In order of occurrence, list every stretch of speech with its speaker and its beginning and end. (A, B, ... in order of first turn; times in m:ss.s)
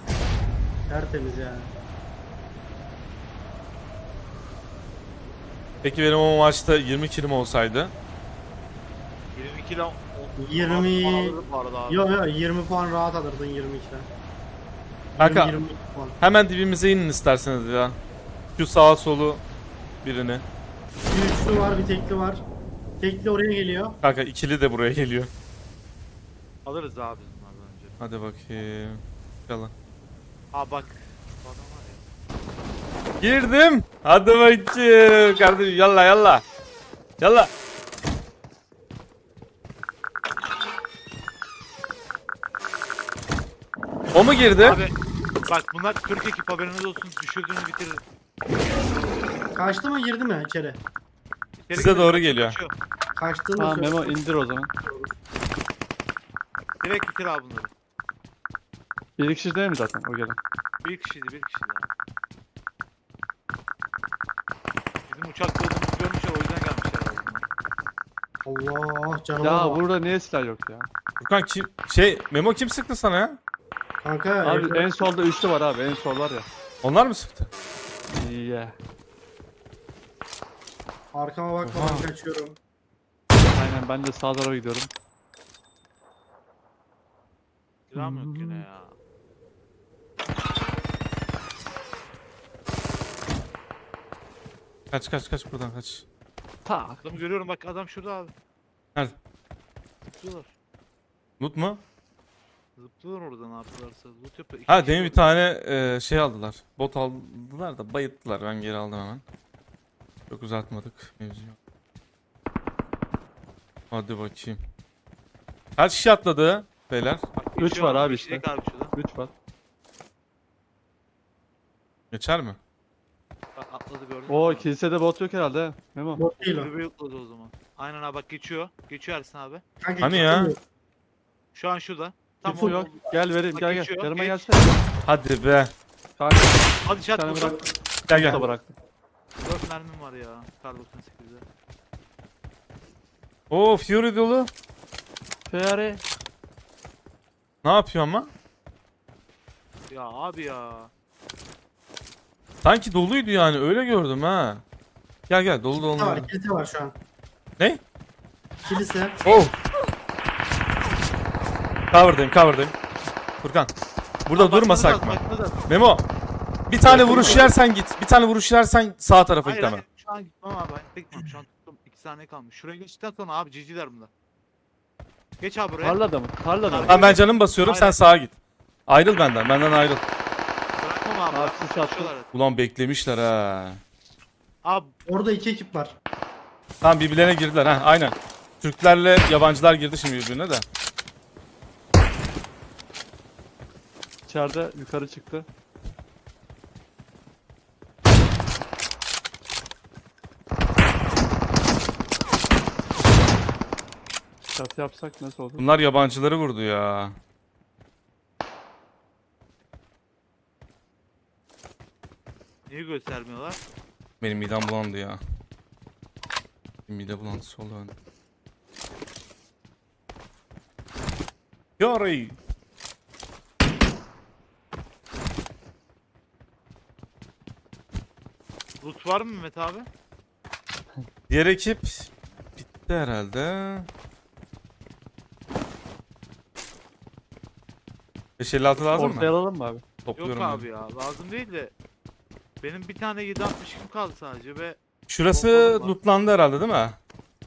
0:00.9-0:01.7 A
0:05.8-0:07.9 B
0:09.3-0:12.1 C
0:10.4-0:14.1 A
0:15.2-0:16.2 A
0:15.2-0:15.5 B
0:16.2-0:18.0 B
0:18.6-0:19.4 B
0:20.0-0:20.4 B
0:21.1-0:22.4 A
0:23.0-0:24.0 A
0:24.0-0:25.3 B
0:26.6-0:28.0 C
0:28.0-0:29.7 B
0:30.5-0:32.0 C
0:33.2-0:36.4 B
0:37.2-0:37.5 B
0:44.1-0:44.8 B
0:44.6-0:44.9 C
0:45.5-0:48.0 C
0:49.5-0:50.8 A
0:51.6-0:52.7 C
0:51.7-0:52.6 B
0:53.2-0:54.2 A
0:53.6-0:54.7 D
0:54.8-0:55.1 A
0:56.8-0:57.7 C
0:59.2-1:00.4 D
1:00.8-1:01.9 C
1:05.1-1:07.4 C
1:08.4-1:09.8 A
1:09.4-1:10.9 D
1:11.2-1:13.4 B
1:14.0-1:15.1 A
1:14.4-1:16.4 D
1:16.8-1:17.5 B
1:18.1-1:18.8 D
1:21.1-1:22.6 A
1:21.6-1:22.0 B
1:23.5-1:24.9 D
1:27.9-1:28.9 C
1:28.0-1:28.6 D
1:34.9-1:36.0 B
1:36.6-1:37.0 D
1:37.0-1:38.3 C
1:40.0-1:40.5 C
1:41.4-1:41.8 B
1:42.8-1:45.2 C
1:44.7-1:49.2 B
1:50.3-1:51.6 B
1:53.9-1:54.6 B
1:55.8-1:57.2 B
1:57.4-1:58.9 C
1:57.6-1:59.3 D
2:02.1-2:02.6 B
2:03.6-2:04.7 C
2:04.3-2:06.2 D
2:06.2-2:06.7 A
2:06.4-2:09.6 C
2:09.8-2:10.6 A
2:10.0-2:10.5 B
2:11.5-2:12.9 C
2:12.4-2:13.1 A
2:12.4-2:14.7 D
2:13.5-2:14.5 C
2:15.0-2:15.7 B
2:16.2-2:18.7 D
2:16.8-2:17.6 C
2:18.1-2:18.4 B
2:18.1-2:18.5 A
2:19.4-2:21.4 C
2:23.5-2:24.5 B
2:25.5-2:26.0 D
2:27.6-2:28.3 B
2:29.9-2:30.9 C
2:32.6-2:34.6 B
2:35.3-2:36.3 B
2:35.7-2:36.9 A
2:38.6-2:39.2 A
2:39.2-2:39.5 B
2:41.9-2:42.7 B
2:43.4-2:43.7 B
2:44.2-2:46.0 B
2:44.3-2:45.8 C
2:46.7-2:49.8 B
2:46.8-2:47.5 A
2:46.9-2:47.5 D
2:49.4-2:54.1 C
2:55.4-2:56.0 C
2:55.8-2:57.2 D
2:56.6-2:58.0 C
2:56.8-2:58.3 B
2:58.9-3:00.0 B
3:00.8-3:02.3 C
3:01.3-3:02.1 D
3:02.3-3:03.8 B
3:04.6-3:04.9 C
3:05.0-3:06.0 A
3:06.8-3:10.6 B
3:14.3-3:15.5 D
3:24.5-3:25.6 D
3:25.6-3:27.2 B
3:32.7-3:33.6 C
3:34.2-3:35.2 B
3:36.9-3:37.9 B
3:41.8-3:42.4 B
3:48.8-3:49.8 C
3:51.3-3:53.9 B
3:58.4-3:59.3 B
3:58.9-3:59.8 D
4:00.0-4:00.6 B
4:00.2-4:01.7 C
4:02.6-4:05.9 C
4:05.1-4:07.0 B